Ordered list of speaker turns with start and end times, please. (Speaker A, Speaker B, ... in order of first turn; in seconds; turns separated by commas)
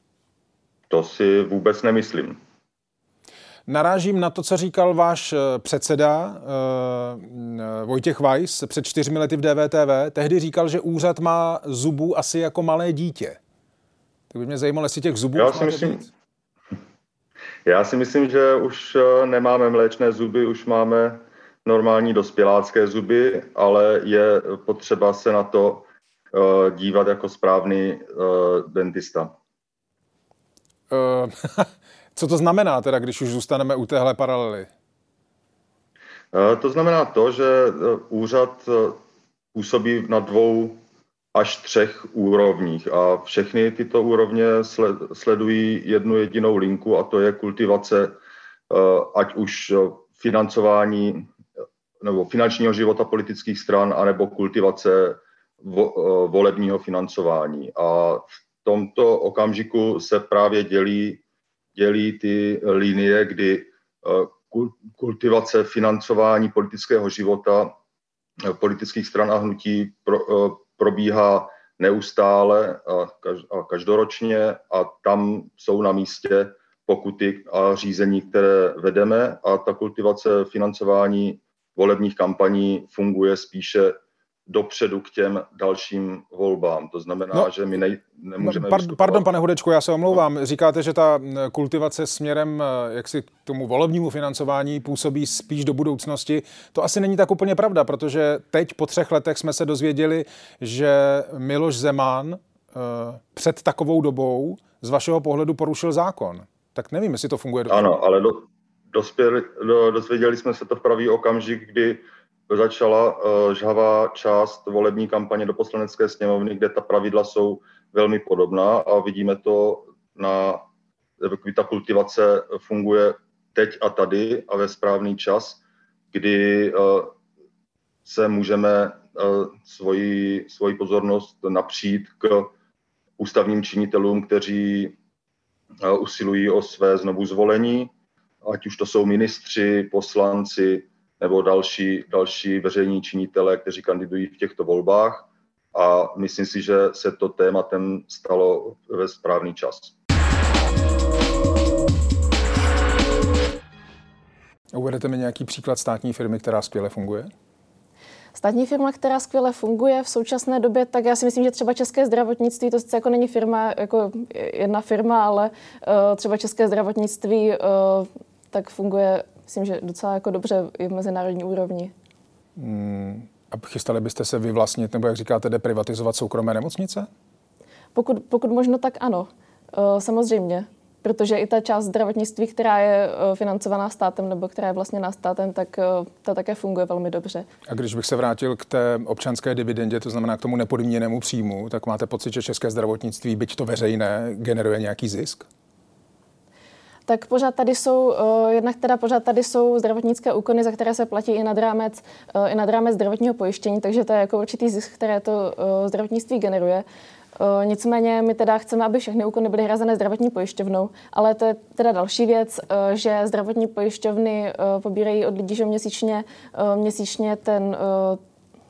Speaker A: 0.9-2.4, Speaker B: 3.7-13.4, Speaker B: 14.3-16.1, Speaker A: 15.4-16.1, Speaker A: 17.7-29.3, Speaker B: 30.9-34.7, Speaker A: 36.3-39.0, Speaker A: 39.5-40.8, Speaker A: 41.4-48.2, Speaker A: 48.7-51.3, Speaker A: 52.0-61.2, Speaker A: 61.8-67.8, Speaker A: 68.5-84.0, Speaker A: 84.5-89.3, Speaker B: 88.4-107.9, Speaker A: 107.7-120.7, Speaker A: 121.2-127.1, Speaker A: 128.1-132.5, Speaker A: 133.2-134.9, Speaker A: 135.8-137.9, Speaker A: 138.4-149.9, Speaker B: 154.7-157.3, Speaker C: 158.3-171.9, Speaker B: 172.6-177.1, Speaker C: 177.9-187.5, Speaker B: 187.7-195.5, Speaker C: 197.1-206.8, Speaker C: 207.4-218.2